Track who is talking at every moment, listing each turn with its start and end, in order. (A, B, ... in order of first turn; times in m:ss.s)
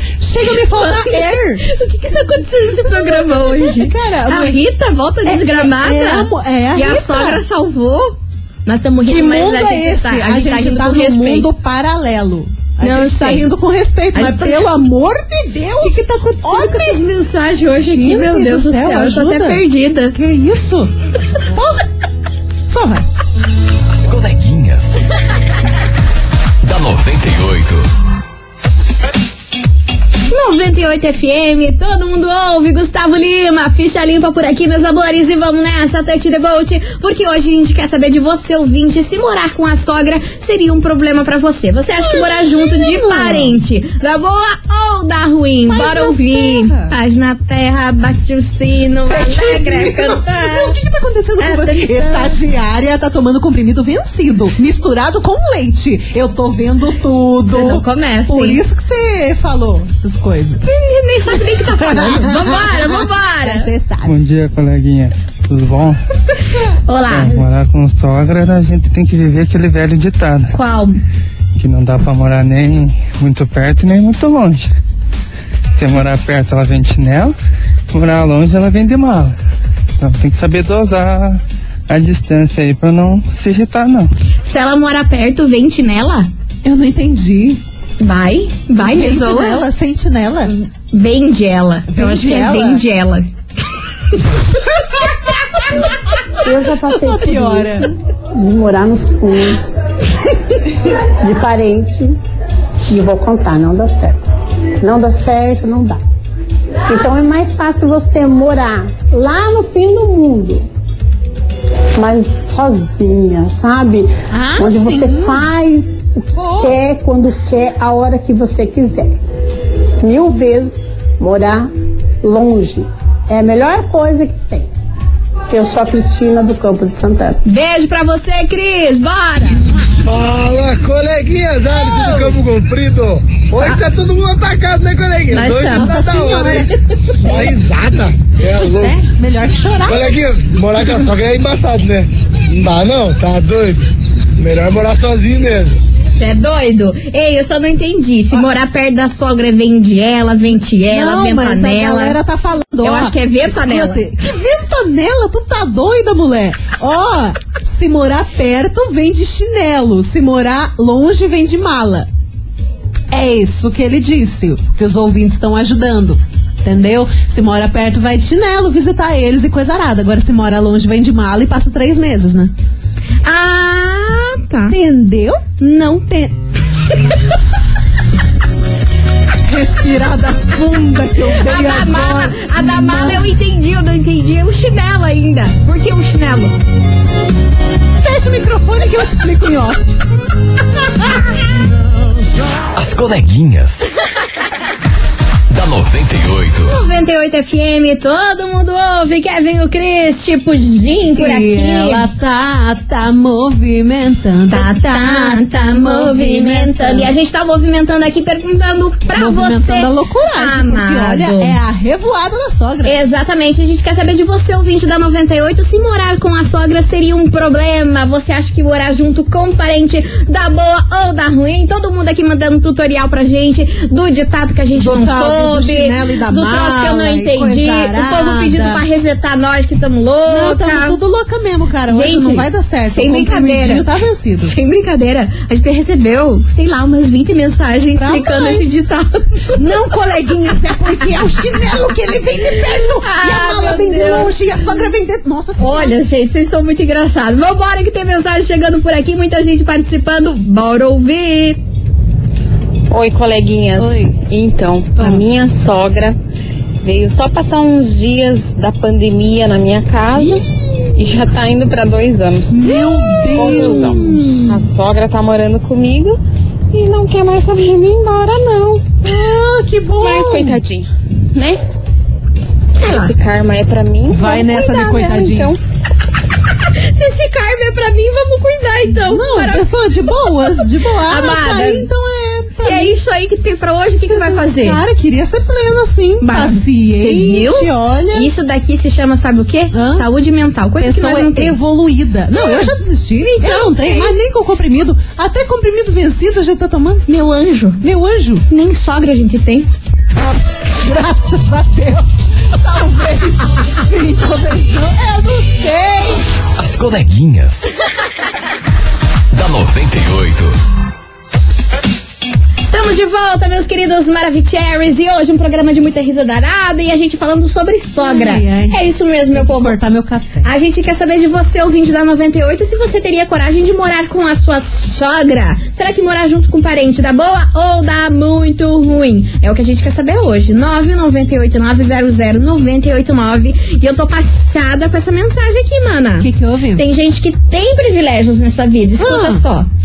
0:00.2-0:01.6 A
0:00.7-0:11.5 B
0:02.8-0:04.6 A
0:05.2-0:07.4 A
0:09.0-0:20.9 A
0:12.8-0:13.5 B
0:14.1-0:14.7 B
0:15.8-0:20.2 B
0:21.5-0:21.9 A
0:22.7-0:23.0 A
0:23.9-0:25.0 C
0:26.6-0:27.9 C
0:30.3-0:50.8 B
0:42.0-0:43.6 A
0:45.7-0:47.0 A
0:49.1-1:00.6 A
0:51.4-0:52.4 B
0:57.5-0:58.6 B
1:00.6-1:03.7 B
1:01.4-1:04.2 A
1:04.1-1:06.0 D
1:06.9-1:07.4 B
1:07.1-1:10.6 D
1:10.5-1:11.0 B
1:11.6-1:14.7 D
1:15.7-1:17.3 D
1:17.9-1:19.3 D
1:20.0-1:24.1 D
1:24.4-1:26.3 B
1:26.6-1:27.6 A
1:28.0-1:29.7 B
1:28.8-1:30.5 A
1:30.6-1:33.3 B
1:31.9-1:32.8 A
1:36.4-1:39.7 E
1:36.8-1:37.9 A
1:40.8-1:42.2 E
1:42.9-1:44.2 E
1:44.8-1:46.0 E
1:46.9-1:50.7 E
1:52.0-1:59.2 E
1:54.3-1:55.5 A
1:56.4-1:56.8 A
2:00.0-2:01.7 E
2:02.2-2:04.7 E
2:05.5-2:07.4 E
2:07.4-2:09.6 B
2:10.0-2:16.7 F
2:11.7-2:12.4 A
2:13.5-2:13.8 B
2:15.3-2:16.1 B
2:15.6-2:16.7 A
2:17.2-2:17.5 B
2:17.3-2:18.9 F
2:18.4-2:20.2 A
2:19.9-2:23.8 F
2:24.4-2:25.8 F
2:26.2-2:32.2 B
2:30.9-2:42.1 A
2:32.8-2:34.0 B
2:43.1-2:52.5 A
2:53.2-2:54.8 B
2:54.7-2:55.5 A
2:55.6-2:56.3 B
2:59.4-3:03.3 A
3:01.3-3:06.5 B
3:08.0-3:10.0 A
3:10.9-3:11.4 A
3:12.8-3:13.9 C
3:15.5-3:16.8 C
3:16.7-3:22.1 B
3:21.2-3:27.1 A
3:24.5-3:31.6 B
3:29.1-3:33.0 A
3:32.9-3:51.0 B
3:44.8-3:48.8 A
3:50.3-3:54.5 A
3:51.9-3:53.9 B
3:54.4-3:59.6 B
3:58.0-3:58.7 A
3:59.6-4:06.0 A
4:03.0-4:04.7 B
4:05.6-4:11.6 B
4:12.9-4:16.2 G
4:13.8-4:14.2 A
4:15.0-4:15.2 A
4:16.8-4:20.4 G
4:20.2-4:20.4 A
4:21.0-4:22.8 G
4:22.5-4:24.4 A
4:22.6-4:24.6 B
4:23.3-4:26.2 G
4:26.7-4:28.9 G
4:29.0-4:30.6 A
4:30.0-4:31.6 G
4:32.7-4:35.6 G
4:32.8-4:33.1 B
4:34.1-4:35.6 A
4:36.7-4:41.9 B
4:38.9-4:43.0 A
4:42.6-4:44.8 B
4:44.0-4:48.3 A
4:46.2-4:51.6 B
4:49.7-4:50.1 A
4:50.8-4:57.0 A
4:52.3-4:54.2 B
4:57.1-4:57.8 B
4:57.8-4:58.4 A
4:58.5-4:59.7 B
5:00.8-5:06.3 A
5:06.6-5:07.7 C
5:09.3-5:10.6 C
5:12.6-5:19.8 B
5:18.0-5:18.8 A
5:19.3-5:20.5 A
5:20.4-5:39.7 B
5:36.2-5:36.8 A
5:39.0-5:39.4 A